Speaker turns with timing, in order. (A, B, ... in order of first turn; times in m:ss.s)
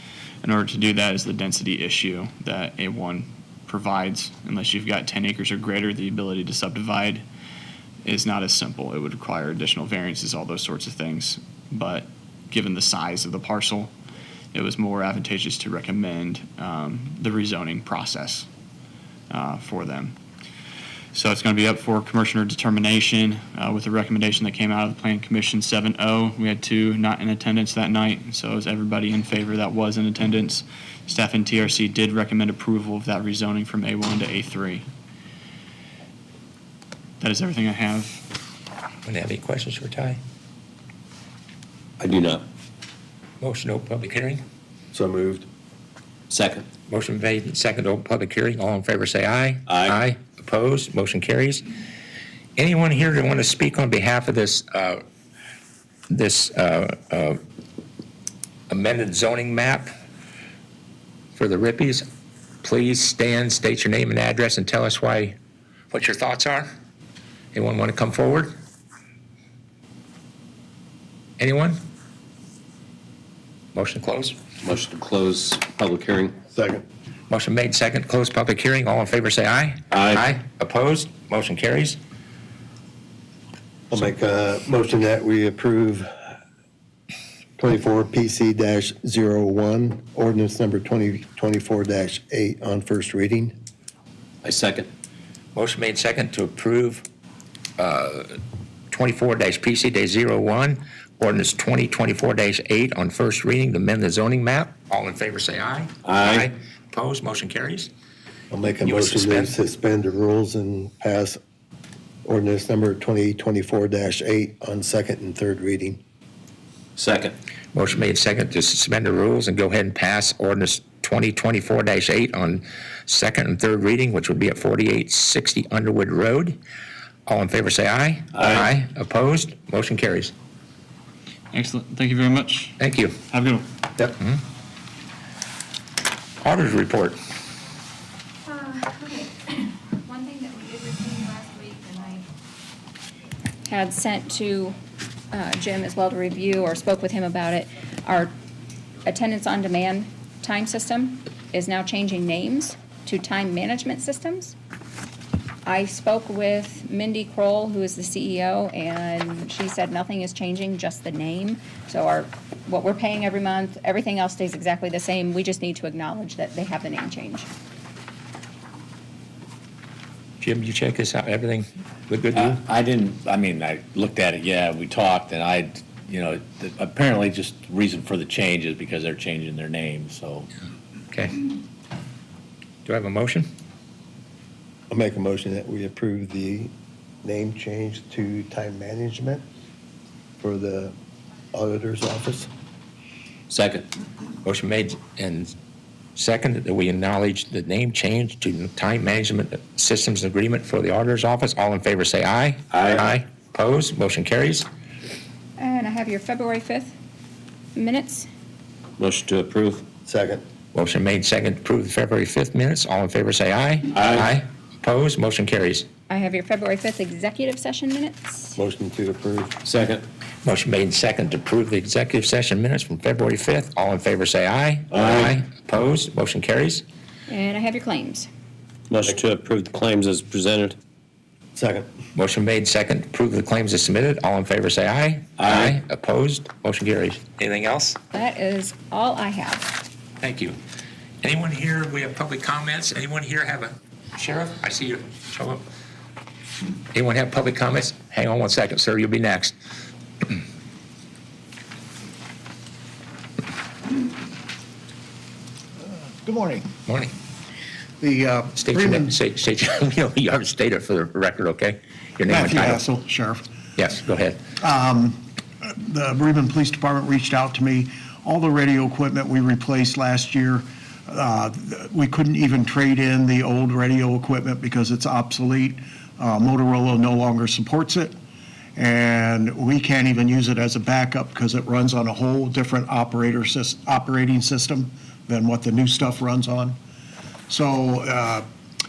0:00.4-0:07.2 A
0:08.0-0:13.9 A
0:14.5-0:18.5 A
0:19.3-0:20.2 A
0:21.1-0:34.9 A
0:37.2-0:38.2 A
0:39.0-0:40.2 B
0:42.0-0:42.4 C
0:43.4-0:44.4 B
0:44.9-0:45.5 D
0:46.3-0:46.7 C
0:46.9-0:51.6 B
0:49.7-0:50.0 C
0:52.6-0:55.0 B
0:56.1-0:57.4 B
0:58.7-0:59.9 B
1:01.4-1:02.1 B
1:02.6-1:05.4 B
1:05.9-1:06.7 B
1:07.5-1:08.5 B
1:11.4-1:11.8 B
1:13.8-1:14.4 B
1:14.6-1:16.4 C
1:16.5-1:16.8 D
1:17.3-1:22.0 B
1:19.9-1:20.3 E
1:23.9-1:26.1 D
1:27.6-1:33.6 D
1:34.4-1:34.9 C
1:35.6-1:37.0 B
1:37.8-1:38.4 B
1:38.9-1:47.9 B
1:46.0-1:46.5 C
1:48.5-1:51.4 D
1:48.8-1:49.5 B
1:52.2-1:56.0 D
1:57.0-1:57.4 C
1:57.7-2:06.6 B
2:07.3-2:10.3 B
2:11.5-2:12.8 A
2:12.8-2:13.2 B
2:13.3-2:13.7 A
2:16.4-2:17.2 B
2:18.4-2:22.3 F
2:23.7-2:24.8 F
2:25.3-2:28.3 F
2:29.0-2:34.6 F
2:35.6-2:47.5 F
2:50.4-2:52.6 B
2:52.3-3:00.5 E
3:01.1-3:01.4 B
3:02.9-3:03.5 B
3:04.9-3:06.7 D
3:07.2-3:09.4 D
3:10.4-3:11.0 D
3:11.5-3:12.5 D
3:13.5-3:13.9 C
3:14.4-3:15.5 B
3:16.2-3:24.7 B
3:22.7-3:23.0 C
3:25.6-3:27.0 F
3:27.8-3:28.3 F
3:29.0-3:29.9 C
3:30.1-3:30.4 D
3:30.7-3:35.9 B
3:33.9-3:34.3 C
3:36.1-3:38.6 F
3:38.6-3:39.6 D
3:39.6-3:40.1 C
3:40.4-3:46.8 B
3:47.3-3:48.3 F
3:48.9-3:50.8 C
3:51.6-3:51.9 D
3:52.2-3:58.0 B
3:55.4-3:55.7 C
3:58.1-3:59.8 F
4:00.2-4:00.6 B
4:01.2-4:05.6 B
4:06.9-4:09.5 B
4:16.2-4:16.7 G
4:16.9-4:17.1 B
4:18.0-4:19.2 G
4:18.6-4:22.8 B
4:22.3-4:23.4 G
4:23.8-4:24.4 B
4:24.6-4:38.1 G
4:38.8-4:46.8 G
4:47.5-4:48.5 G